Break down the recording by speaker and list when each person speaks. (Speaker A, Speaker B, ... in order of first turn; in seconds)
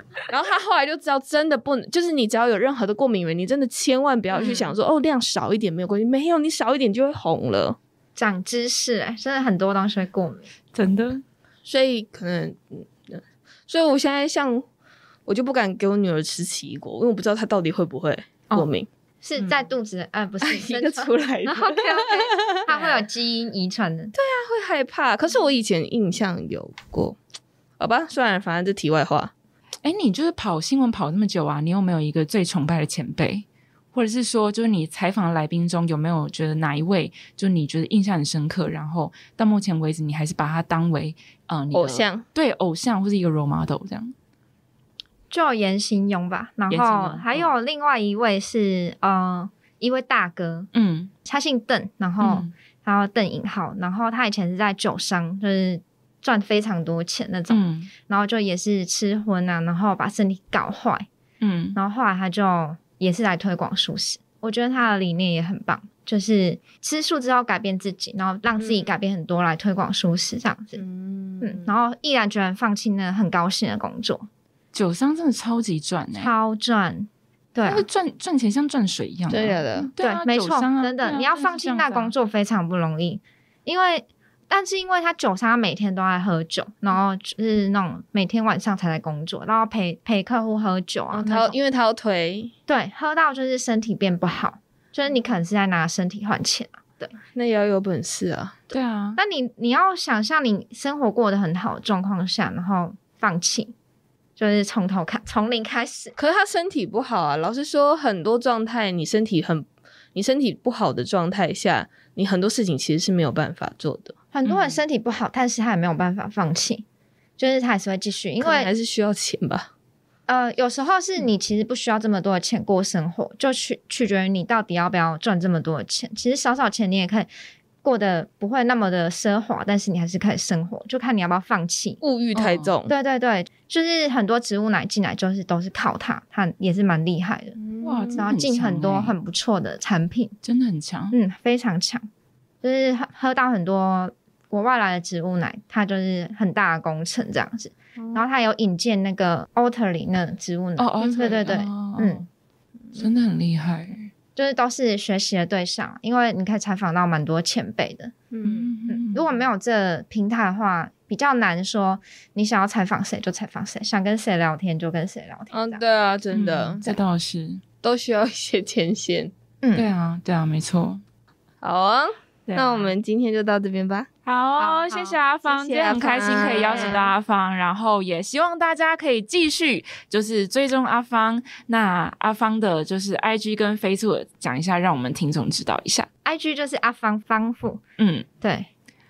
Speaker A: 0.3-7.8, 11.7-14.6, 15.3-18.9, 20.4-23.1, 24.1-27.2, 27.8-29.3, 41.7-42.2, 68.6-68.9, 70.8-71.7, 79.3-79.9, 91.1-92.5, 97.3-98.6, 106.1-114.7, 118.4-119.7, 132.0-132.9, 137.6-138.2, 148.0-148.2, 151.0-151.5, 158.3-158.7, 165.5-166.9, 167.8-169.3, 171.6-174.1, 175.4-177.1
Speaker B: 8.2-10.5, 19.2-24.1, 45.3-50.7, 51.2-61.1, 61.8-70.8, 71.4-74.3, 76.2-77.8, 80.0-91.5, 92.7-97.1, 99.2-103.7, 104.4-106.1, 114.3-116.8, 117.4-118.7, 120.3-127.3, 127.8-132.0, 132.9-137.6, 138.2-140.3, 141.1-142.1, 142.6-152.3, 154.3-158.1, 158.9-165.8, 169.6-169.9, 174.6-175.2, 176.2-176.9, 186.2-187.8, 188.4-188.7
Speaker C: 10.7-11.2, 29.8-44.1, 46.7-47.5, 50.7-51.1, 52.2-52.5, 57.5-57.9, 61.4-61.8, 74.7-76.3, 77.6-82.1, 98.7-99.2, 132.3-132.7, 137.8-139.1, 140.4-141.1, 150.8-152.2, 153.0-154.0, 158.4-159.4, 166.3-167.6, 169.7-171.0, 172.5-172.9, 174.2-186.1, 188.0-188.3